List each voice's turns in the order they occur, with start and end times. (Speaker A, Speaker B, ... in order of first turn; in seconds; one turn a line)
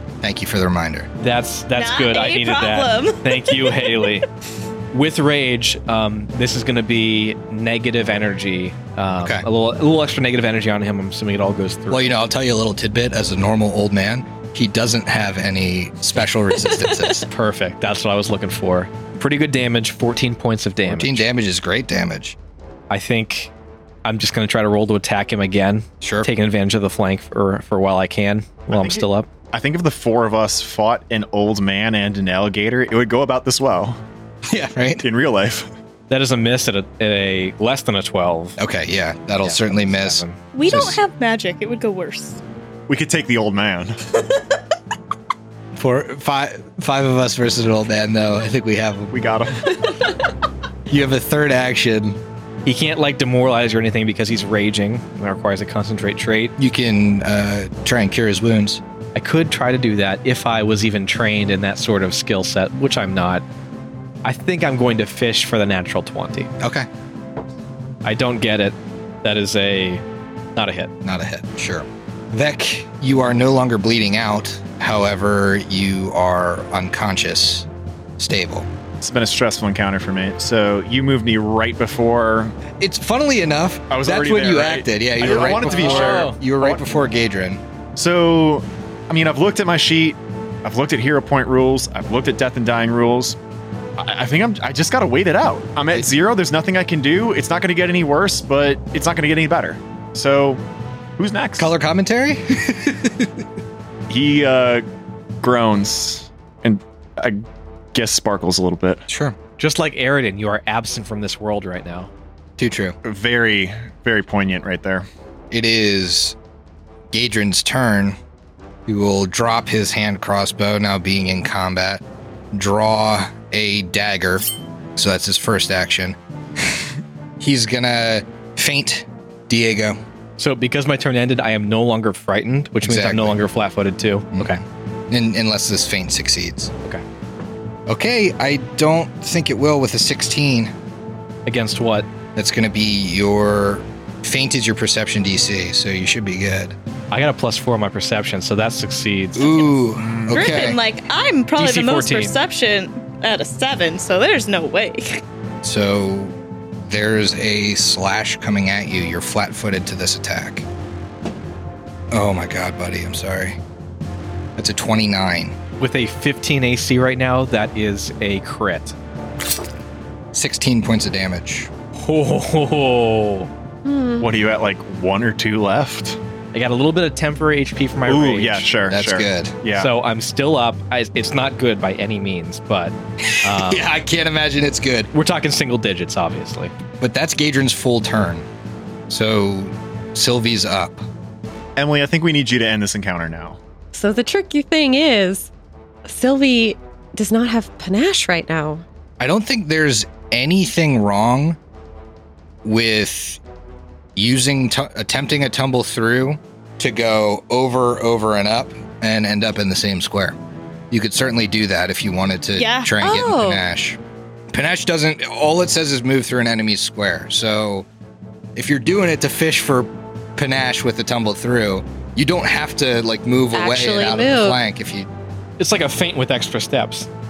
Speaker A: 0.2-1.1
Speaker B: 1.2-4.3
Speaker C: 1.8-4.0
Speaker B: 4.9-12.1
Speaker A: 11.9-17.3
Speaker B: 17.3-21.3
Speaker A: 20.9-22.4
Speaker B: 22.9-23.5
Speaker B: 24.1-29.3
Speaker A: 26.0-26.3
Speaker D: 28.7-34.0
Speaker A: 34.5-35.1
Speaker D: 35.0-35.7
Speaker B: 36.1-38.6
Speaker A: 38.6-41.0
Speaker B: 39.4-40.4
Speaker C: 40.5-42.4
Speaker D: 42.9-44.0
Speaker A: 45.8-49.1
Speaker D: 49.1-49.9
Speaker A: 50.9-52.2
Speaker B: 52.7-56.5
Speaker A: 56.6-58.8
Speaker B: 59.1-63.4
Speaker B: 64.2-66.5
Speaker A: 66.6-66.9
Speaker B: 68.0-70.0
Speaker B: 70.6-70.9
Speaker A: 71.0-77.7
Speaker A: 78.2-78.7
Speaker D: 79.0-82.5
Speaker A: 82.8-87.6
Speaker D: 83.9-86.8
Speaker B: 85.2-86.4
Speaker D: 88.0-93.4
Speaker D: 94.0-100.6
Speaker D: 101.2-101.7
Speaker A: 101.6-103.4
Speaker D: 104.1-104.8
Speaker D: 105.4-109.1
Speaker A: 109.1-109.4
Speaker B: 109.6-112.1
Speaker A: 112.6-113.0
Speaker D: 113.0-115.1
Speaker A: 115.5-116.4
Speaker A: 117.1-118.2
Speaker A: 118.9-130.0
Speaker B: 130.4-134.6
Speaker A: 132.8-133.4
Speaker A: 135.1-136.7
Speaker A: 137.9-140.7
Speaker B: 141.5-142.1
Speaker A: 142.4-146.8
Speaker B: 147.1-149.6
Speaker A: 149.4-150.8
Speaker D: 150.0-150.7
Speaker C: 150.3-155.2
Speaker B: 151.6-152.3
Speaker A: 155.6-160.7
Speaker A: 162.1-163.6
Speaker A: 164.6-165.6
Speaker B: 165.8-168.9
Speaker A: 170.3-171.7
Speaker B: 172.0-173.5
Speaker E: 173.8-174.3
Speaker D: 174.2-176.2
Speaker B: 176.5-178.7
Speaker D: 178.1-179.9
Speaker A: 178.9-179.6
Speaker B: 179.7-183.9
Speaker A: 183.2-185.1
Speaker B: 185.1-186.7
Speaker A: 187.0-188.5
Speaker A: 189.1-191.1
Speaker D: 191.8-193.6
Speaker E: 193.9-195.5
Speaker E: 196.1-198.8
Speaker A: 199.2-201.6
Speaker A: 202.6-203.4
Speaker A: 204.2-210.4
Speaker A: 210.9-214.0
Speaker C: 212.6-212.9
Speaker E: 213.0-213.6
Speaker A: 214.5-217.9
Speaker A: 218.6-225.1
Speaker E: 223.5-224.6
Speaker B: 225.6-227.1